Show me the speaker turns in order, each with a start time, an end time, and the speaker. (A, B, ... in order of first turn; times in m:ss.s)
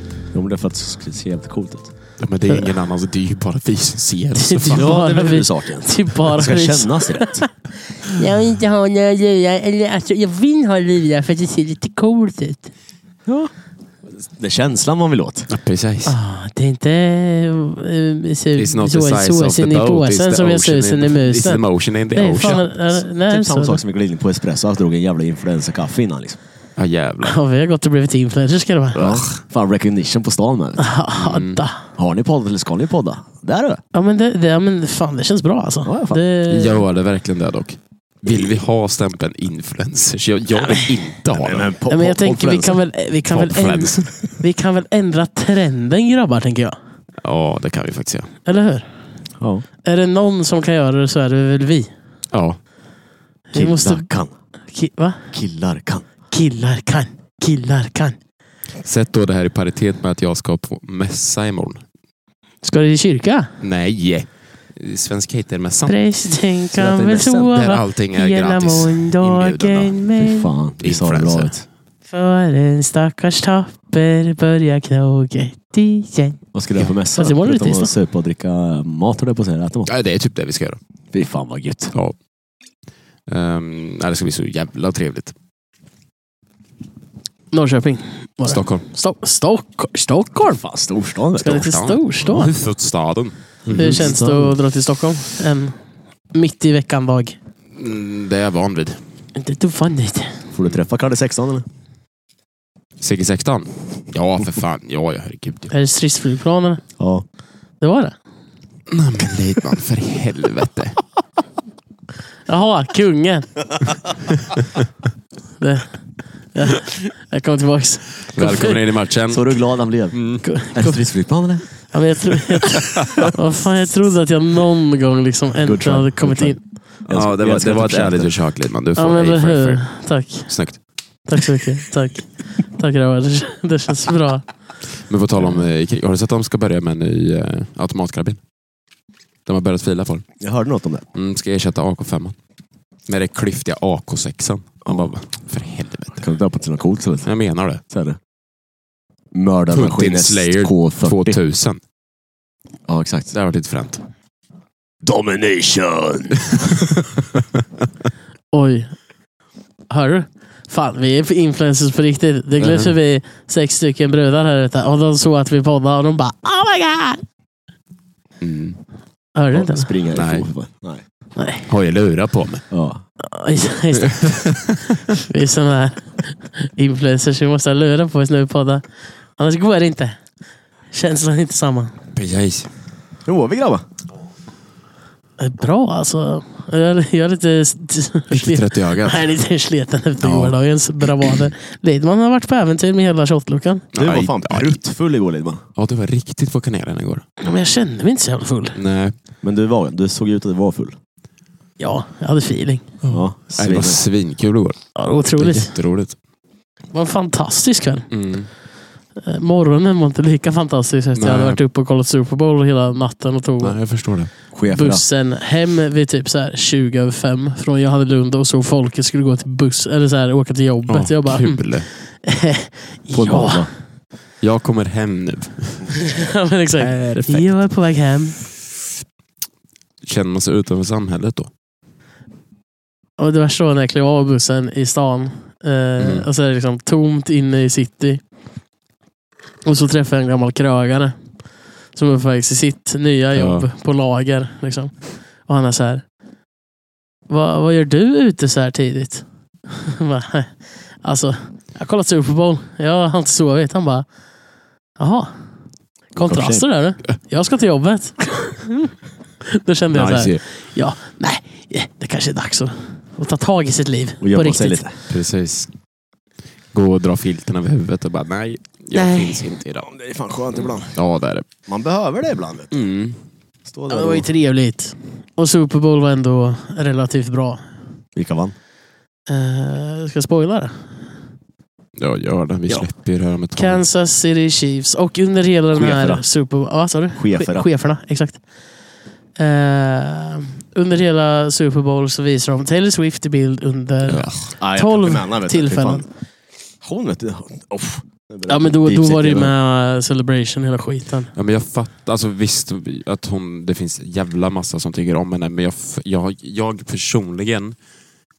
0:00.3-0:01.9 A
0:02.2-0:05.0 B
0:04.4-0:07.5 C
0:04.7-0:07.5 A
0:08.0-0:12.7 C
0:13.2-0:13.5 A
0:14.1-0:15.5 A
0:15.5-0:16.1 B
0:16.0-0:23.8 C
0:18.6-0:22.6 B
0:23.3-0:26.4 A
0:26.8-0:27.4 B
0:27.2-0:29.0 C
0:28.9-0:29.4 B
0:28.9-0:30.9 A
0:30.8-0:31.8 C
0:31.1-0:31.6 B
0:32.0-0:33.8 A
0:33.9-0:36.8 C
0:35.8-0:36.2 A
0:36.5-0:41.7 B
0:41.3-0:42.8 A
0:41.9-0:46.8 C
0:43.3-0:44.3 B
0:47.2-0:48.3 B
0:48.4-0:48.9 C
0:49.4-0:49.6 A
0:49.8-0:51.9 C
0:52.3-0:52.6 B
0:53.5-0:54.0 C
0:53.5-0:54.3 A
0:54.7-0:55.3 C
0:55.3-0:56.0 A
0:56.3-0:58.2 C
0:58.8-1:01.8 B
1:02.6-1:03.5 C
1:03.6-1:05.9 B
1:05.9-1:10.5 C
1:06.7-1:07.5 A
1:07.4-1:09.9 B
1:10.2-1:11.6 A
1:10.8-1:11.6 B
1:12.1-1:16.4 C
1:16.5-1:19.9 A
1:17.1-1:17.9 C
1:19.9-1:20.8 B
1:21.1-1:21.9 A
1:23.3-1:25.3 B
1:27.5-1:30.6 C
1:28.4-1:28.8 B
1:30.4-1:31.7 A
1:31.4-1:32.5 C
1:31.4-1:34.1 B
1:33.6-1:34.6 A
1:33.7-1:35.8 C
1:36.3-1:37.4 C
1:37.7-1:39.0 B
1:39.4-1:40.4 C
1:40.5-1:41.6 A
1:43.0-1:45.7 B
1:45.7-1:46.8 C
1:47.0-1:47.2 A
1:47.8-1:48.2 C
1:48.9-1:51.0 B
1:52.5-1:53.5 C
1:55.6-1:58.8 C
1:58.3-1:59.6 B
1:59.3-2:01.8 A
2:00.1-2:00.4 B
2:00.4-2:01.0 C
2:01.8-2:06.6 C
2:05.6-2:08.3 A
2:07.1-2:10.8 B
2:09.0-2:10.5 C
2:11.3-2:14.4 C
2:15.0-2:18.4 B
2:15.4-2:15.7 A
2:19.4-2:20.2 B
2:20.4-2:21.0 A
2:21.1-2:22.4 B
2:23.1-2:26.2 B
2:26.2-2:27.3 A
2:27.2-2:27.8 B
2:27.9-2:28.2 A
2:29.3-2:31.4 A
2:29.7-2:31.8 B
2:32.9-2:33.3 A
2:33.3-2:34.0 B
2:35.0-2:37.0 A
2:38.5-2:38.9 C
2:39.9-2:47.2 C
2:42.6-2:42.9 B
2:48.4-2:48.8 B
2:49.3-2:49.9 C
2:49.5-2:51.0 A
2:50.1-2:50.5 B
2:51.4-2:51.7 C
2:51.7-2:52.6 B
2:52.7-2:53.0 A
2:53.2-2:58.8 C
2:54.2-2:54.8 B
2:59.4-3:00.2 C
3:00.9-3:01.9 C
3:02.1-3:02.7 B
3:03.2-3:03.8 A
3:05.4-3:13.8 C
3:08.3-3:09.2 B
3:10.2-3:10.6 B
3:13.9-3:14.8 B
3:13.9-3:15.6 A
3:15.8-3:17.2 B
3:17.4-3:18.8 C
3:18.7-3:19.2 B
3:19.4-3:21.0 A
3:21.8-3:23.0 C
3:23.0-3:26.2 B
3:23.1-3:24.0 A
3:25.0-3:25.7 C
3:26.9-3:28.1 C
3:28.1-3:28.5 B
3:29.1-3:33.8 C
3:31.1-3:31.6 B
3:33.6-3:34.3 B
3:34.5-3:35.0 A
3:34.7-3:43.7 C
3:40.9-3:41.9 B
3:43.1-3:43.7 A
3:44.4-3:46.1 B
3:46.0-3:48.4 C
3:46.8-3:47.6 B
3:50.0-3:51.5 B
3:53.2-3:58.2 C
3:56.0-3:56.3 B
3:59.6-4:01.2 C
4:01.9-4:06.0 C
4:03.3-4:03.7 B
4:07.3-4:14.1 C
4:15.0-4:15.3 C
4:16.1-4:18.9 C
4:16.2-4:16.6 A
4:19.5-4:24.8 C
4:19.9-4:20.4 B
4:24.2-4:24.9 A
4:25.1-4:25.7 B
4:26.7-4:29.9 B
4:28.9-4:29.4 C
4:29.8-4:31.0 A
4:30.8-4:31.4 B
4:31.6-4:32.7 A
4:32.7-4:33.2 B
4:33.6-4:34.3 A
4:33.9-4:37.6 C
4:38.2-4:38.5 A
4:39.3-4:40.9 C
4:42.0-4:43.8 B
4:43.6-4:48.4 C
4:45.7-4:46.2 A
4:47.1-4:47.7 A
4:49.4-4:56.0 C
4:54.1-4:54.5 B
4:54.6-4:56.1 A
4:56.8-4:59.5 A
4:58.5-5:01.3 C
5:01.3-5:07.8 B